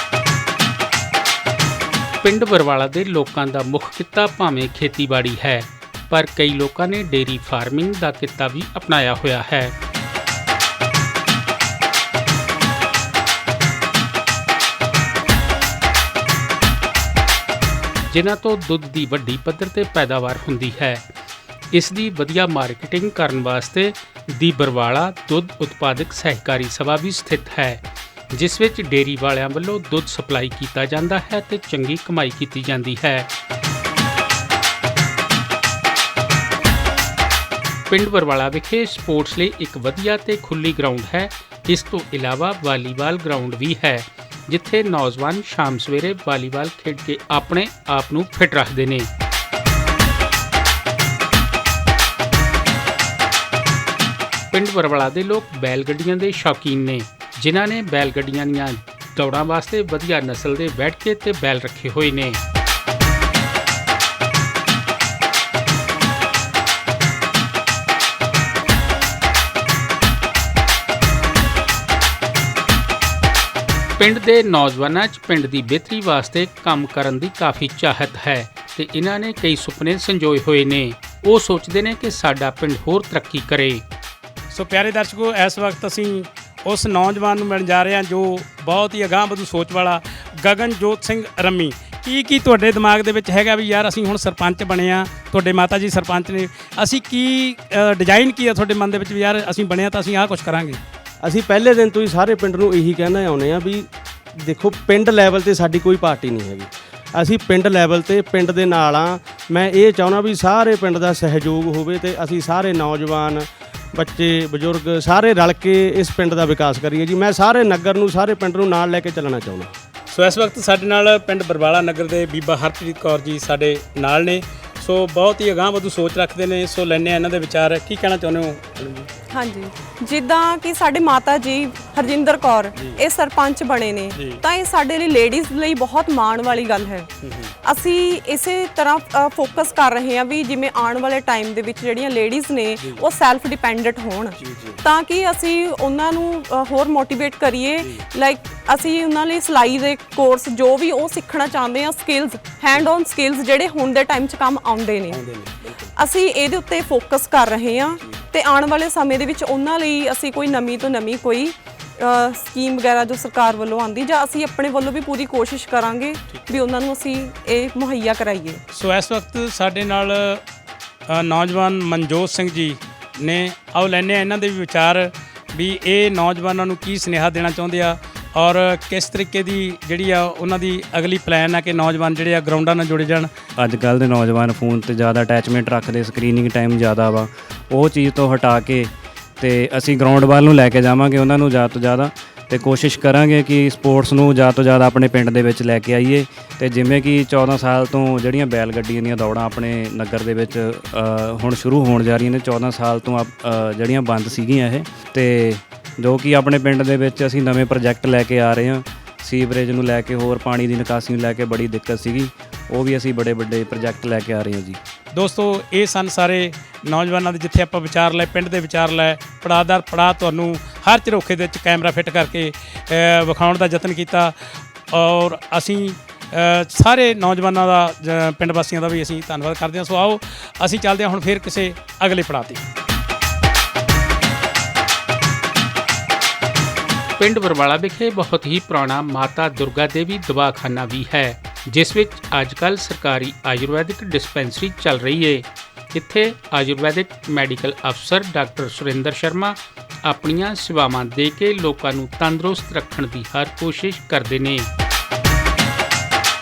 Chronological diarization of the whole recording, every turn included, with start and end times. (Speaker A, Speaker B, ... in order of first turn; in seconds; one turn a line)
Speaker A: 2.2-9.8
Speaker A: 18.1-21.1
Speaker A: 21.7-33.3
Speaker A: 37.9-49.1
Speaker A: 54.5-62.4
Speaker A: 74.0-83.8
Speaker B: 84.5-100.8
Speaker C: 101.2-119.8
Speaker B: 120.1-129.1
Speaker D: 129.3-137.1
Speaker B: 134.2-134.4
Speaker B: 137.2-137.5
Speaker D: 137.6-168.6
Speaker B: 144.4-144.8
Speaker B: 155.1-155.8
Speaker B: 168.7-170.4
Speaker B: 171.1-183.3
Speaker E: 183.6-214.8
Speaker B: 215.1-224.3
Speaker B: 224.9-232.6
Speaker A: 237.2-254.7